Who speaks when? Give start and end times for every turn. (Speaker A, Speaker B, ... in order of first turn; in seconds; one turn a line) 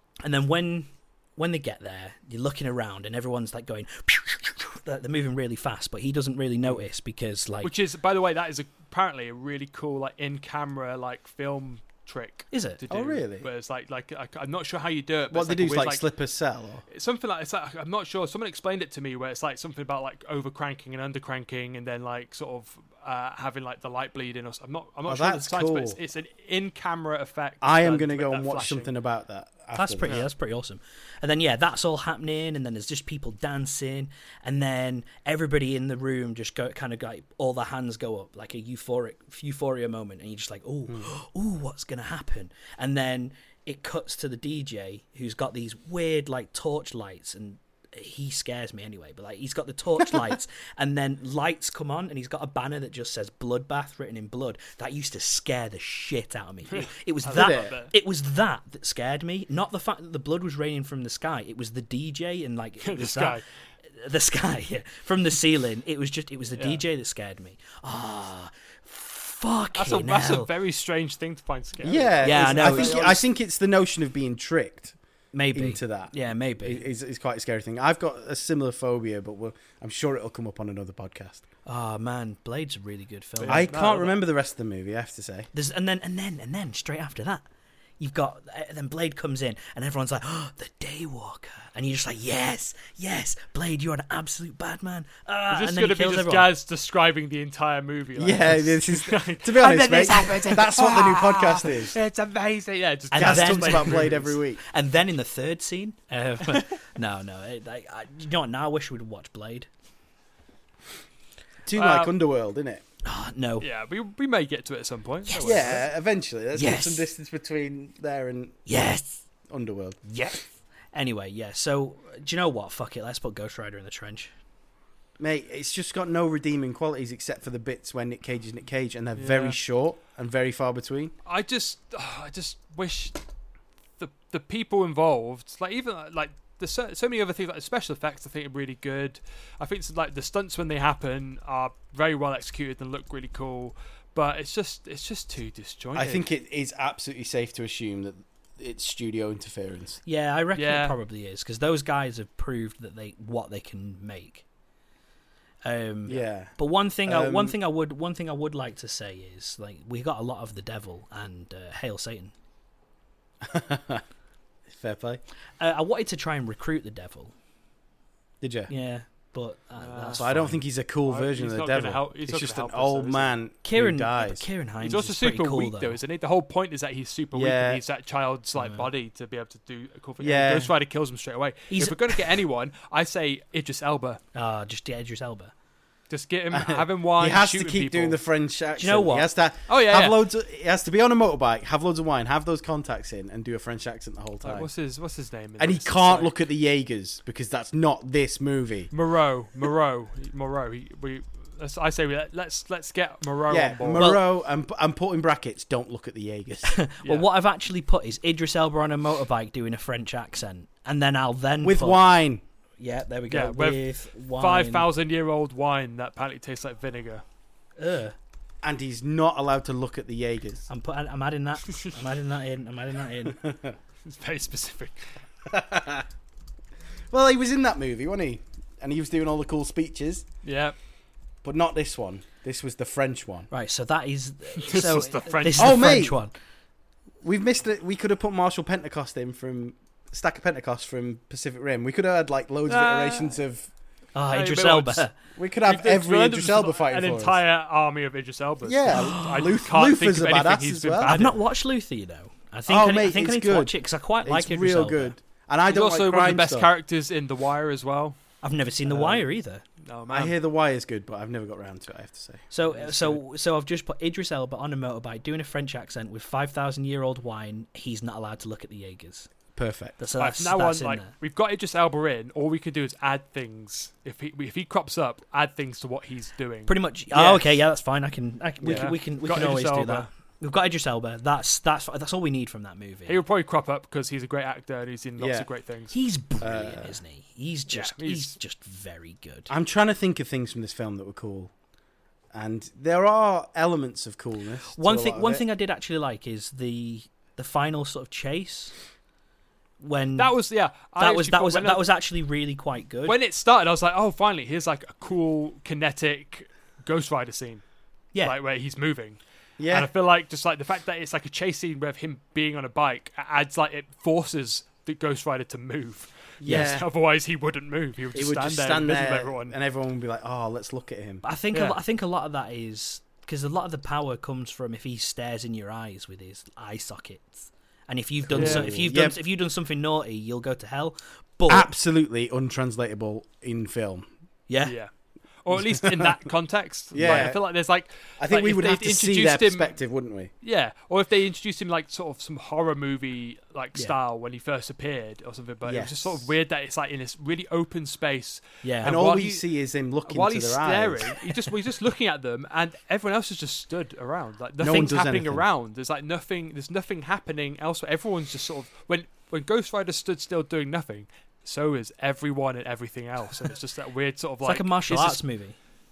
Speaker A: 0.2-7.7
Speaker B: 7.6-16.1
Speaker A: 12.5-12.8
Speaker C: 12.9-13.5
Speaker C: 15.3-16.8
Speaker B: 16.9-28.9
Speaker C: 25.1-26.0
Speaker C: 27.6-30.3
Speaker A: 29.7-63.4
Speaker B: 56.7-57.9
Speaker C: 57.3-57.7
Speaker B: 62.8-63.4
Speaker A: 63.9-70.5
Speaker B: 66.6-66.8
Speaker B: 69.8-73.2
Speaker C: 71.8-75.0
Speaker A: 72.2-73.2
Speaker A: 75.3-76.8
Speaker C: 75.5-81.4
Speaker A: 81.7-83.8
Speaker B: 83.4-84.2
Speaker C: 83.5-85.5
Speaker A: 85.5-87.4
Speaker A: 88.0-96.5
Speaker B: 95.5-104.3
Speaker C: 98.2-102.0
Speaker A: 100.0-100.8
Speaker A: 103.1-109.7
Speaker C: 103.1-104.6
Speaker C: 111.7-112.8
Speaker B: 111.7-112.2
Speaker A: 113.0-113.7
Speaker B: 113.6-115.8
Speaker A: 115.3-115.8
Speaker C: 115.4-118.6
Speaker A: 116.5-117.1
Speaker A: 118.7-119.2
Speaker C: 119.5-120.0
Speaker A: 120.1-124.3
Speaker C: 125.2-131.2
Speaker B: 129.2-129.6
Speaker B: 131.3-133.2
Speaker B: 134.0-146.2
Speaker C: 145.9-150.0
Speaker A: 150.1-154.4
Speaker B: 150.6-151.0
Speaker A: 155.7-162.3
Speaker C: 156.1-157.6
Speaker C: 163.4-164.0
Speaker C: 164.7-165.2
Speaker A: 165.6-167.3
Speaker C: 168.4-168.7
Speaker A: 168.7-170.6
Speaker B: 169.8-170.2
Speaker C: 170.2-174.5
Speaker B: 171.0-173.3
Speaker A: 173.6-176.0
Speaker B: 174.8-184.2
Speaker C: 177.3-177.8
Speaker A: 178.6-178.9
Speaker C: 180.2-180.7
Speaker A: 181.7-182.0
Speaker A: 184.3-185.5
Speaker B: 186.1-188.2
Speaker C: 186.5-194.7
Speaker A: 188.8-189.3
Speaker B: 189.7-190.2
Speaker B: 194.4-196.3
Speaker C: 195.6-198.9
Speaker B: 198.9-204.2
Speaker C: 203.5-206.7
Speaker A: 204.0-204.2
Speaker A: 206.7-212.1
Speaker C: 211.6-212.4
Speaker A: 212.8-214.9
Speaker B: 213.3-217.2
Speaker A: 217.8-218.2
Speaker C: 218.6-220.7
Speaker A: 220.7-223.4
Speaker C: 223.4-223.7
Speaker B: 224.1-225.1
Speaker C: 225.5-226.1
Speaker C: 227.1-230.3
Speaker B: 230.4-230.8
Speaker C: 231.4-233.5
Speaker A: 233.5-236.3
Speaker B: 234.6-236.0
Speaker C: 235.6-236.2
Speaker C: 237.2-243.7
Speaker B: 242.7-243.4
Speaker A: 244.2-245.1
Speaker B: 244.3-245.1
Speaker C: 245.4-247.4
Speaker B: 245.7-251.4
Speaker C: 248.7-251.3
Speaker A: 248.9-249.3
Speaker A: 251.1-255.1
Speaker C: 252.7-256.7
Speaker B: 255.7-258.2
Speaker A: 258.4-259.6
Speaker C: 258.9-259.3
Speaker B: 259.8-260.4
Speaker C: 260.1-263.2
Speaker A: 262.5-269.3
Speaker C: 269.6-270.0
Speaker A: 270.0-271.1
Speaker B: 270.2-276.7
Speaker A: 276.7-283.2
Speaker C: 277.1-277.5
Speaker C: 278.6-278.9
Speaker B: 278.7-280.1
Speaker B: 283.1-285.9
Speaker C: 285.2-285.5
Speaker A: 285.9-289.5
Speaker C: 286.4-287.0
Speaker B: 287.7-288.4
Speaker C: 289.5-291.5
Speaker C: 292.3-295.4
Speaker A: 294.7-298.7
Speaker A: 299.8-300.3
Speaker B: 300.2-301.9
Speaker A: 301.0-303.2
Speaker B: 303.1-307.6
Speaker B: 308.2-319.6
Speaker C: 309.6-309.9
Speaker C: 316.4-316.9
Speaker A: 316.4-316.7
Speaker C: 318.1-321.2
Speaker A: 321.2-331.7
Speaker B: 321.5-321.8
Speaker C: 328.2-329.2
Speaker B: 328.4-328.7
Speaker C: 331.5-334.1
Speaker A: 334.5-334.8
Speaker B: 334.6-334.9
Speaker B: 335.4-339.8
Speaker C: 335.8-336.1
Speaker C: 336.9-337.4
Speaker A: 337.0-337.3
Speaker C: 338.2-340.3
Speaker B: 340.4-349.4
Speaker C: 345.6-346.3
Speaker A: 348.6-348.9
Speaker C: 348.8-351.2
Speaker B: 350.1-365.2
Speaker C: 354.6-355.4
Speaker A: 364.4-365.6